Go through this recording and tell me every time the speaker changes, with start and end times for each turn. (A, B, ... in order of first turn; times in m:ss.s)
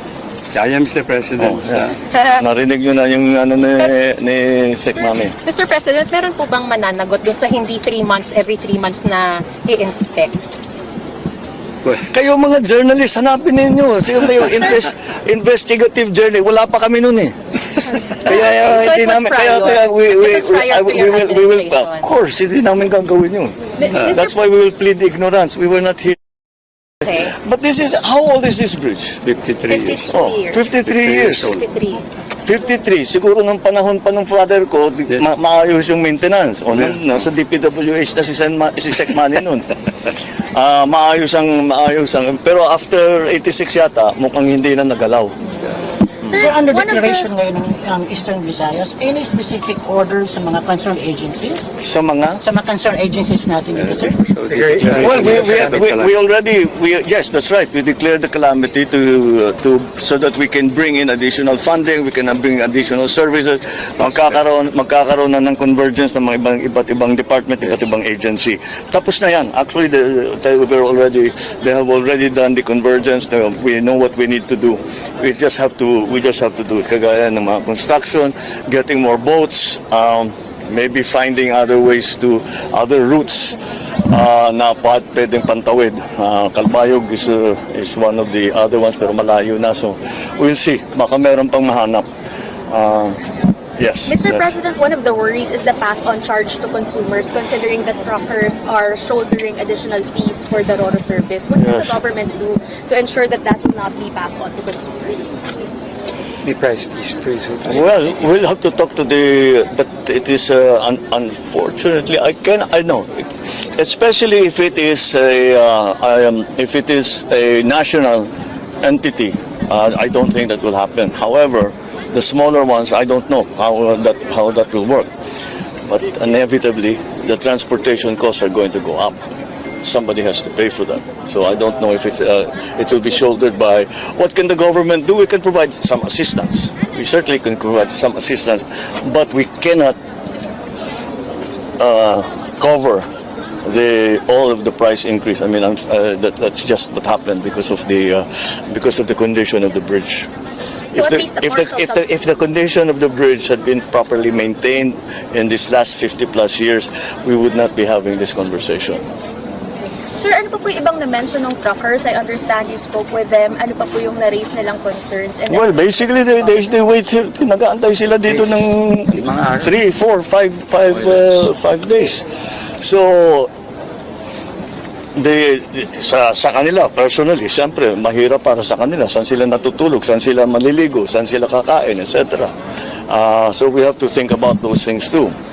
0:00.5-0:02.0 A
0:01.4-0:05.3 B
0:02.1-0:02.4 C
0:05.4-0:10.4 C
0:12.1-0:17.3 B
0:17.8-0:26.2 B
0:18.1-0:22.1 C
0:23.8-0:24.3 D
0:27.0-0:27.3 C
0:27.0-0:29.2 B
0:29.2-0:30.2 A
0:29.7-0:30.6 C
0:30.1-0:31.6 B
0:30.8-0:31.6 A
0:31.4-0:32.0 C
0:32.4-0:45.3 B
0:46.2-0:47.3 D
0:46.3-0:51.7 E
0:51.8-0:52.4 B
0:52.4-0:54.2 E
0:53.7-0:56.0 A
0:54.9-1:32.0 B
1:32.7-1:33.2 B
1:33.8-1:34.6 B
1:34.1-1:45.3 D
1:41.6-1:42.0 B
1:47.6-1:58.3 B
1:58.8-2:05.1 B
2:05.9-2:09.2 B
2:09.8-2:20.0 B
2:21.8-2:23.0 B
2:23.6-2:30.3 B
2:30.9-2:39.0 B
2:30.9-2:32.0 D
2:40.2-2:46.7 D
2:45.5-2:52.3 B
2:52.8-2:53.5 B
2:55.2-3:02.5 B
3:03.1-3:05.3 B